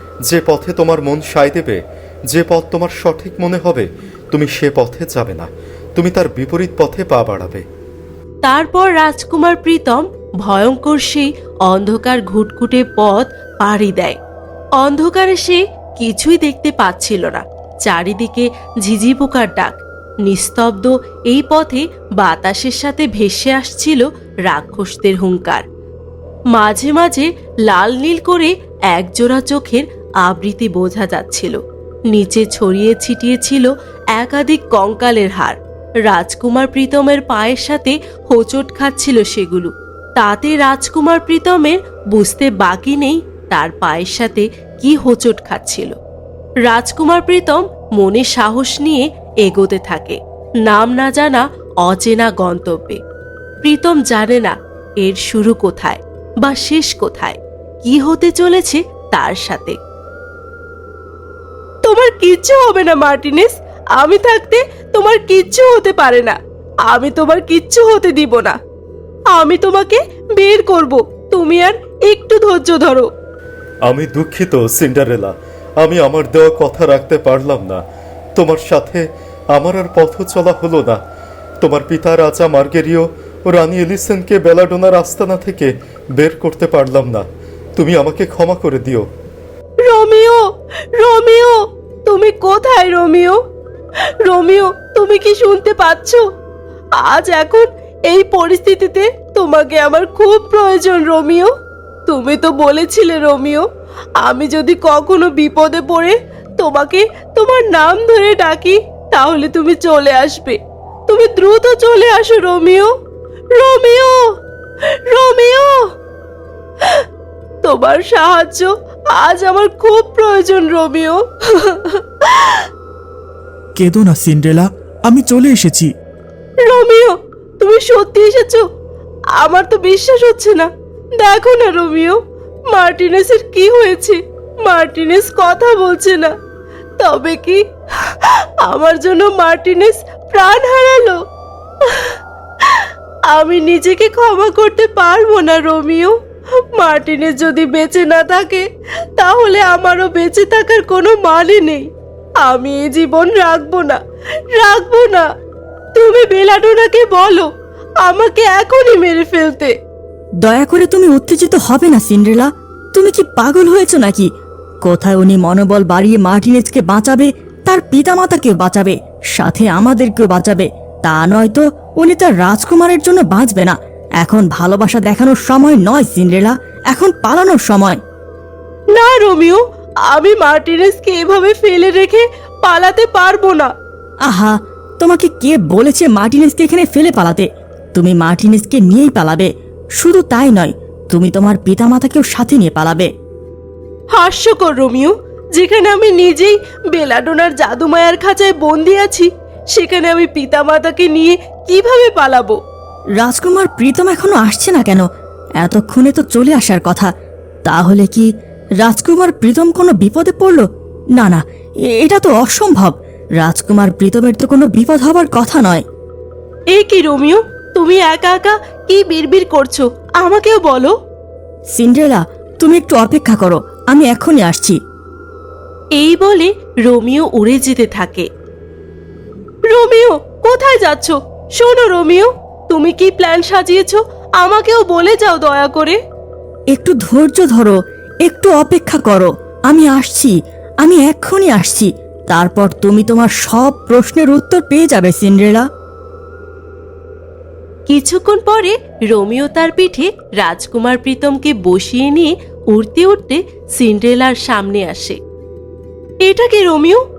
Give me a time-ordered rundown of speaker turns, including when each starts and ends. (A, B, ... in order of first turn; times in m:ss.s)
0:00.3-0:07.6 A
0:08.4-0:14.2 B
0:14.8-0:25.6 B
0:26.5-0:31.6 B
0:32.1-0:46.0 B
0:46.7-0:53.0 B
0:53.6-0:59.8 B
1:01.8-1:06.4 B
1:06.9-1:08.6 B
1:09.3-1:13.1 B
1:13.8-1:17.8 A
1:18.4-1:21.0 A
1:21.6-1:29.1 A
1:29.9-1:30.4 B
1:31.0-1:33.4 B
1:34.2-1:36.2 B
1:37.0-1:41.5 B
1:42.1-1:43.6 B
1:44.2-1:50.6 B
1:51.1-1:52.9 B
1:53.6-1:54.1 B
1:55.1-1:55.8 B
1:57.6-2:01.8 B
2:03.8-2:05.9 C
2:06.6-2:08.6 B
2:09.4-2:10.7 B
2:11.2-2:12.2 B
2:12.7-2:16.3 B
2:17.0-2:17.6 B
2:18.7-2:21.2 B
2:23.3-2:26.1 B
2:26.8-2:28.6 B
2:29.2-2:31.9 B
2:32.4-2:34.0 B
2:34.6-2:35.2 B
2:36.0-2:37.5 B
2:38.0-2:39.7 B
2:40.4-2:44.3 D
2:44.9-2:58.0 D
2:59.0-2:59.6 B
3:00.1-3:03.7 B
3:04.3-3:13.1 D
3:14.1-3:22.6 B
3:23.2-3:25.0 D
3:25.6-3:27.1 D
3:27.6-3:28.3 D
3:28.8-3:30.6 D
3:31.9-3:35.8 D
3:36.7-3:40.9 B
3:41.7-3:44.8 D
3:46.0-3:48.3 B
3:49.7-3:56.0 B
3:56.7-4:05.6 D
4:07.9-4:15.2 B
4:16.2-4:17.0 B